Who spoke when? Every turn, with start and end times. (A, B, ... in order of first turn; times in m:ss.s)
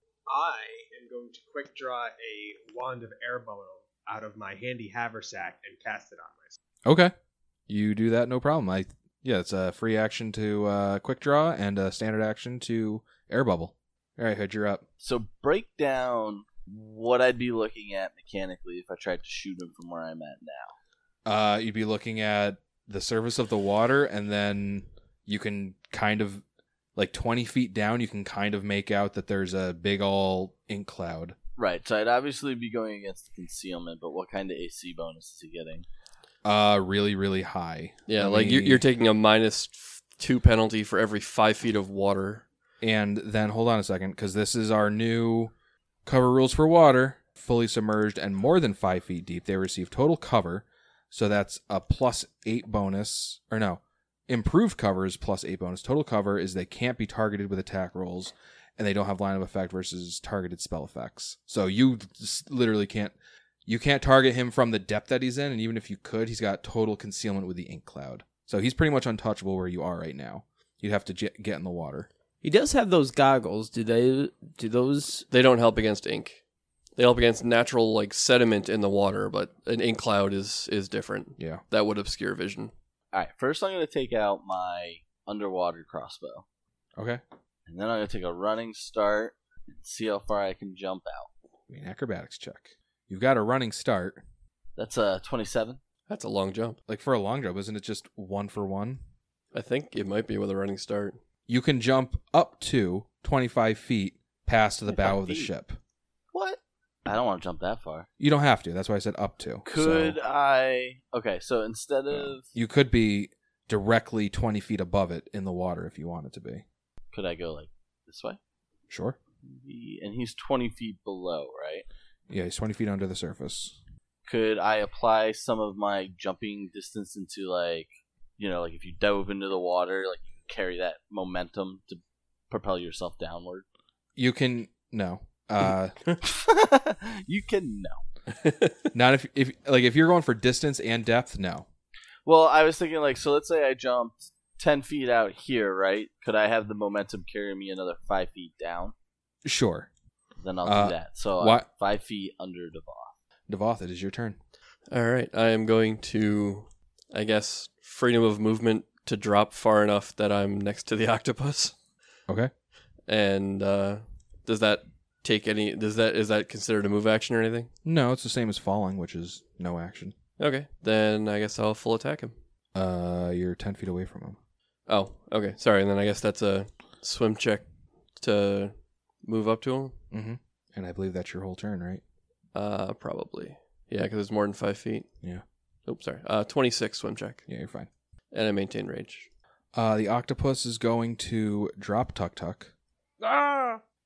0:00.3-0:06.6 A
0:06.8-0:07.1 B
0:07.7-0:14.8 B
0:15.0-0:20.7 C
0:21.2-0:26.4 B
0:26.9-0:31.4 B
0:31.6-0:35.8 C
0:36.4-0:38.8 B
0:38.1-0:42.4 D
0:42.8-0:45.5 B
0:46.0-1:03.1 B
1:03.6-1:12.1 B
1:12.4-1:15.2 E
1:15.3-1:16.4 D
1:17.0-1:22.7 D
1:21.4-1:21.6 B
1:23.1-1:26.4 C
1:27.0-1:27.2 B
1:27.7-1:31.3 C
1:31.7-1:34.2 B
1:34.8-1:35.8 C
1:36.1-1:36.8 D
1:36.9-1:39.0 B
1:39.5-1:41.2 D
1:41.5-1:45.8 B
1:44.9-1:45.5 C
1:46.3-1:48.1 C
1:48.2-1:50.2 B
1:49.6-1:52.5 C
1:52.1-1:56.6 B
1:57.1-1:58.4 C
1:58.9-1:59.2 B
1:59.4-2:01.8 C
2:02.3-2:03.8 B
2:04.3-2:13.6 C
2:14.2-2:16.0 B
2:16.2-2:18.0 C
2:18.4-2:18.9 D
2:18.9-2:21.6 B
2:22.2-2:28.9 C
2:29.4-2:29.9 B
2:30.4-2:33.2 C
2:30.6-2:31.6 B
2:33.5-2:34.4 B
2:34.9-2:41.7 D
2:43.1-2:47.7 D
2:47.8-2:50.1 B
2:50.4-2:52.3 D
2:52.7-2:54.4 B
2:54.9-3:00.0 D
3:00.1-3:02.0 B
3:02.5-3:05.1 D
3:05.9-3:07.4 D
3:07.5-3:07.9 B
3:08.3-3:09.3 D
3:09.7-3:12.7 B